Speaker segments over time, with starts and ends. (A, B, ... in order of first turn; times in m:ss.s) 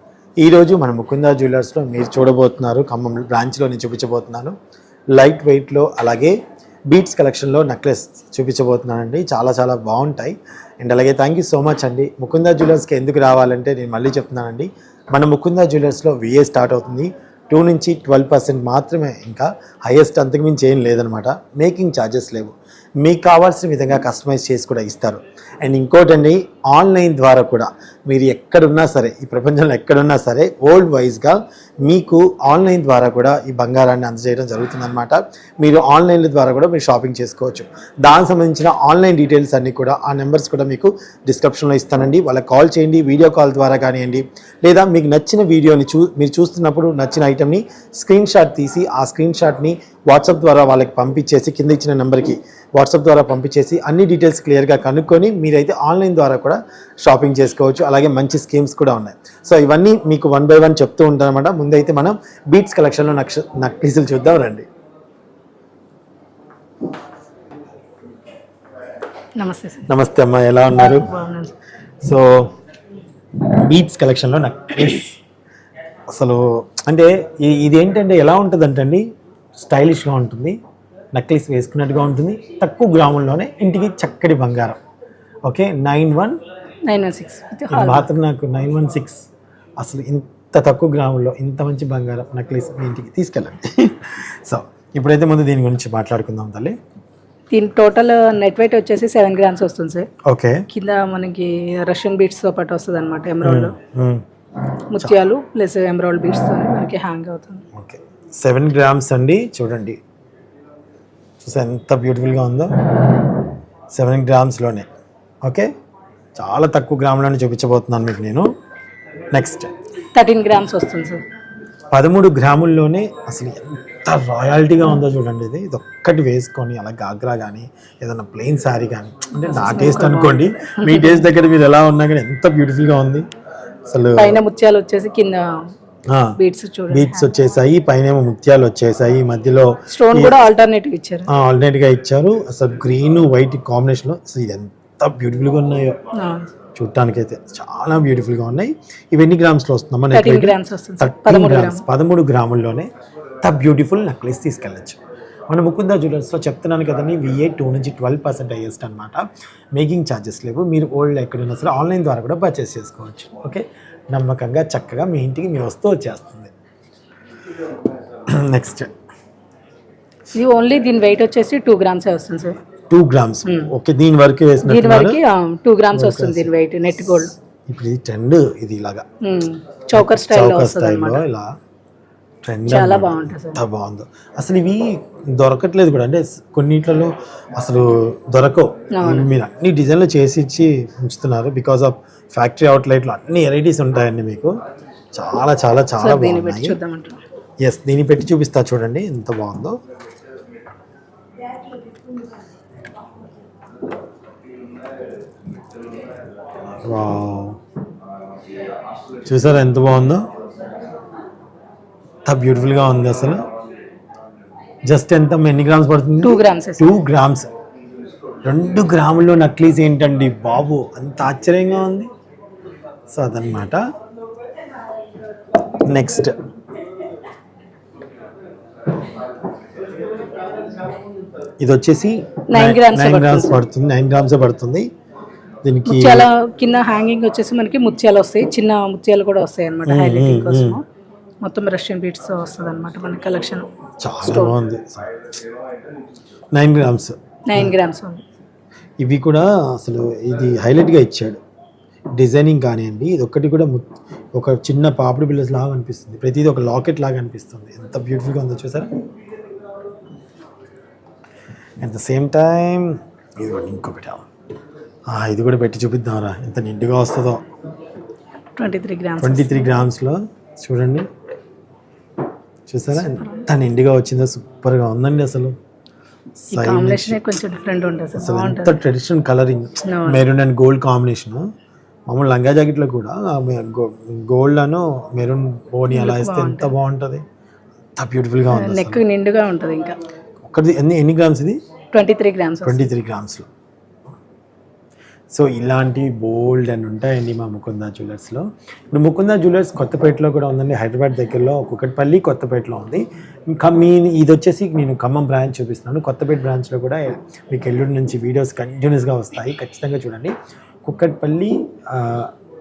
0:00.4-0:04.5 A
0:05.1-0:06.3 A
0:06.9-1:04.6 A
1:09.4-1:09.9 B
1:09.9-1:11.1 A
1:10.7-1:11.5 B
1:12.0-1:12.5 A
1:13.4-1:15.2 A
1:16.1-1:19.0 A
1:19.6-1:20.6 A
1:21.1-1:24.8 A
1:25.4-1:26.4 A
1:26.8-1:28.1 B
1:27.7-1:29.2 A
1:29.8-1:36.7 A
1:37.5-1:40.1 B
1:40.2-1:40.6 A
1:40.7-1:43.7 B
1:43.4-1:44.2 A
1:44.9-1:47.6 B
1:47.7-1:50.0 A
1:51.4-1:52.8 A
1:53.9-1:54.8 A
1:56.4-1:58.4 A
1:59.3-1:59.7 A
2:00.1-2:01.2 B
2:01.9-2:13.2 A
2:09.4-2:11.2 B
2:13.9-2:14.4 A
2:14.2-2:15.5 B
2:16.1-2:16.4 A
2:16.4-2:17.3 B
2:16.9-2:20.4 A
2:19.9-2:21.3 B
2:21.3-2:26.0 A
2:26.1-2:26.5 B
2:26.8-2:32.9 A
2:30.1-2:31.8 B
2:33.4-2:46.5 A
2:48.3-2:48.9 A
2:50.3-2:52.6 B
2:52.9-2:55.2 A
2:53.4-2:53.7 B
2:54.6-2:57.3 B
2:55.9-2:56.5 A
2:57.2-2:59.0 A
2:59.2-3:01.2 B
2:59.9-3:01.5 A
3:02.4-3:14.5 A
3:02.7-3:03.6 B
3:08.9-3:09.3 B
3:15.1-3:16.8 A
3:16.0-3:17.2 B
3:17.6-3:19.8 A
3:26.8-3:27.6 A
3:29.2-3:30.2 A
3:32.2-3:33.4 A
3:34.9-3:37.5 A
3:36.2-3:36.9 B
3:38.4-3:42.1 A
3:43.1-3:43.8 A
3:45.8-3:46.3 A
3:51.6-3:54.9 A
3:52.5-3:53.6 B
3:55.6-3:56.3 A
3:55.8-4:00.8 B
3:59.8-4:00.8 A
4:01.4-4:03.7 B
4:04.0-4:05.2 A
4:04.2-4:04.5 B
4:06.5-4:07.7 A
4:07.5-4:08.2 B
4:09.0-4:11.4 A
4:12.2-4:19.0 A
4:21.8-4:24.2 A
4:25.1-4:27.4 A
4:28.6-4:29.7 B
4:29.2-4:31.1 A
4:32.7-4:35.5 A
4:33.0-4:33.4 B
4:36.4-4:37.2 A
4:36.5-4:38.8 B
4:38.2-4:41.4 A
4:39.8-4:40.2 B
4:42.1-4:47.2 A
4:45.9-4:46.7 B
4:48.0-4:49.0 A
4:48.5-4:50.0 B
4:50.4-4:51.6 A
4:51.9-4:52.8 B
4:52.6-4:53.5 A
4:55.3-5:12.3 A